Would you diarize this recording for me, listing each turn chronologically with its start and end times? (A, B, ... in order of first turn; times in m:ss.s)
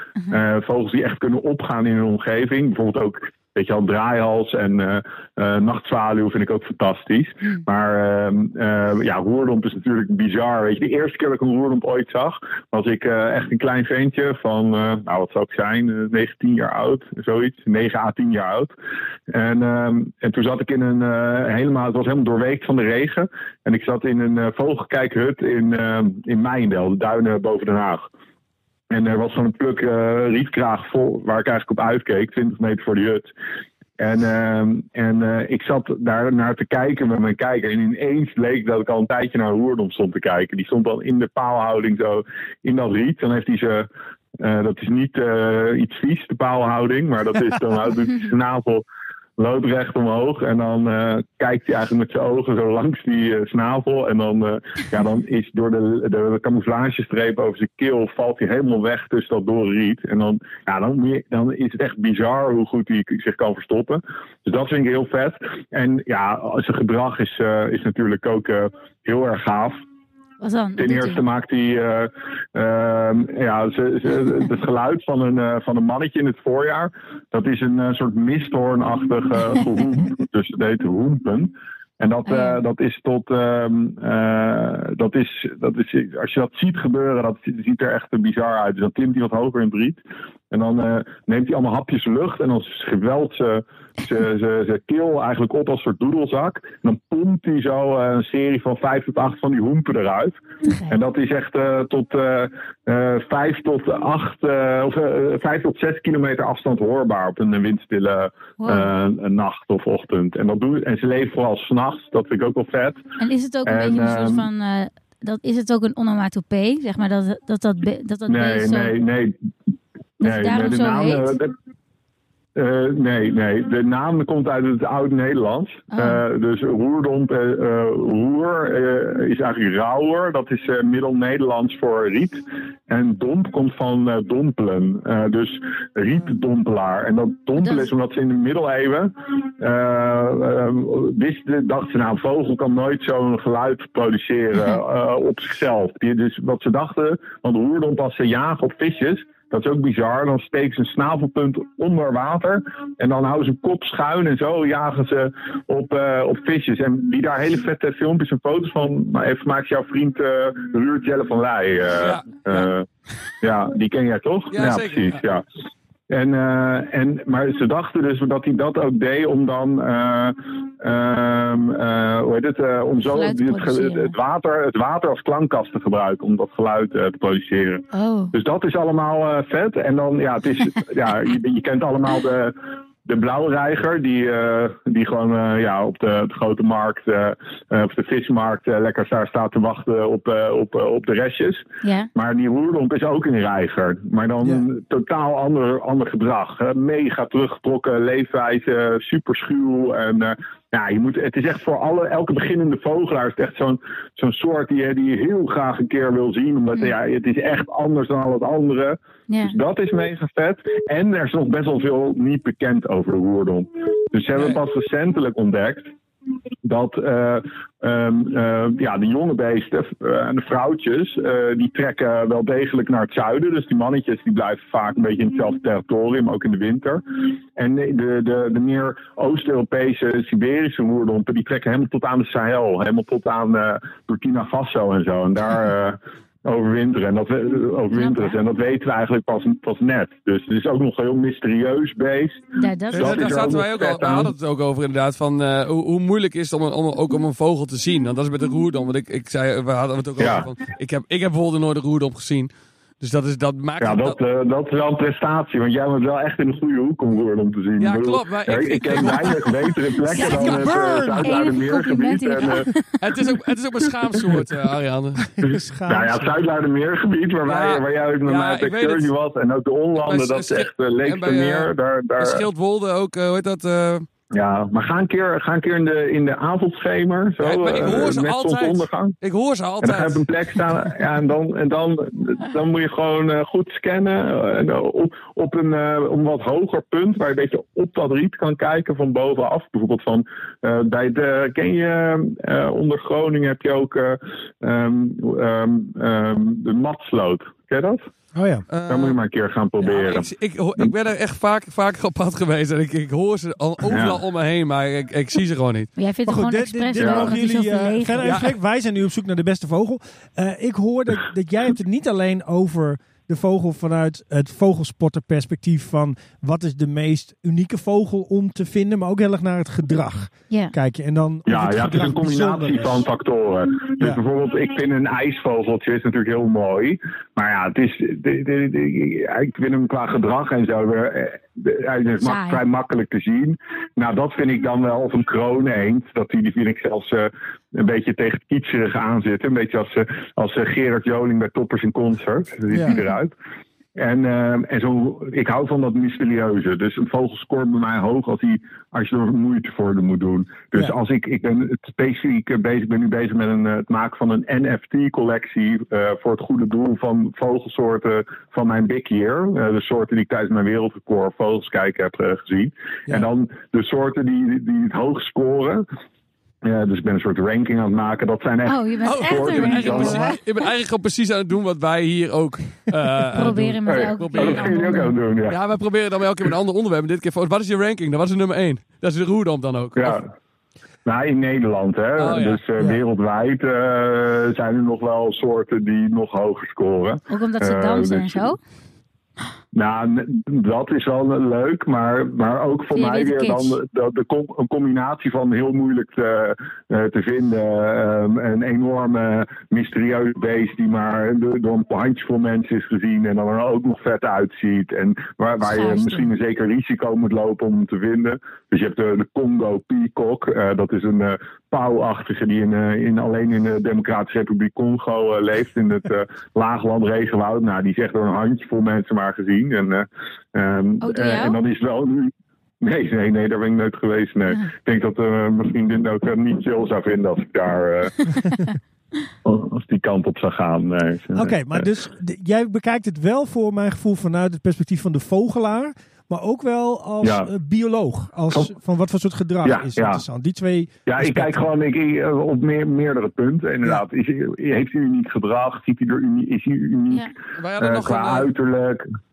0:00.3-0:18.7 A
0:19.3-0:28.1 A
0:28.9-0:33.3 A
0:34.0-0:43.9 A
0:44.4-0:48.8 A
0:49.4-1:09.8 A
1:10.4-1:11.2 B
1:10.8-1:30.0 A
1:22.3-1:22.6 B
1:30.5-1:53.0 A
1:40.6-1:41.0 B
1:48.6-1:48.9 B
1:53.2-1:58.9 B
1:53.6-1:54.5 A
1:58.3-1:59.4 A
2:00.2-2:01.5 A
2:00.2-2:01.4 B
2:02.6-2:42.8 A
2:05.9-2:06.2 B
2:17.6-2:17.9 B
2:41.9-2:42.7 C
2:43.4-2:45.4 A
2:44.5-2:45.2 C
2:46.1-3:35.9 A
2:53.0-2:54.1 B
2:57.9-2:58.3 B
3:11.8-3:12.1 B
3:29.3-3:29.5 B
3:36.6-3:47.0 A
3:47.6-4:04.3 A
3:57.9-3:58.4 B
4:02.6-4:03.4 B
4:02.9-4:14.2 C
4:10.2-4:10.5 A
4:13.8-4:22.7 A
4:17.8-4:19.6 C
4:20.1-4:21.6 D
4:20.1-4:23.0 B
4:23.0-4:25.3 C
4:25.3-4:26.3 D
4:25.4-4:32.4 A
4:27.4-4:29.1 C
4:30.0-4:34.1 C
4:34.3-4:39.1 A
4:37.4-4:40.2 C
4:39.8-4:58.1 A
4:58.3-4:58.6 D
4:58.7-4:59.2 C
4:58.9-5:00.3 A
4:59.8-5:05.9 C
5:03.8-5:04.2 A
5:06.0-5:08.5 B
5:06.2-5:23.0 D
5:07.0-5:07.3 A
5:08.2-5:08.5 C
5:21.4-5:43.3 A
5:32.2-5:32.6 B
5:42.7-5:43.0 D
5:44.0-6:05.8 A
6:06.6-6:10.4 A
6:08.6-6:10.4 B
6:09.0-6:20.2 C
6:13.3-6:15.1 B
6:13.8-6:15.6 A
6:20.0-6:20.2 A
6:21.0-6:28.6 A
6:22.2-6:22.6 C
6:27.3-6:28.6 B
6:29.7-7:08.2 A
6:32.9-6:33.8 B
6:45.6-6:46.3 B
7:01.0-7:01.6 B
7:09.4-7:11.8 A
7:11.3-7:21.6 D
7:17.2-7:17.5 A
7:19.6-7:20.2 A
7:21.0-7:29.0 A
7:27.5-7:28.5 C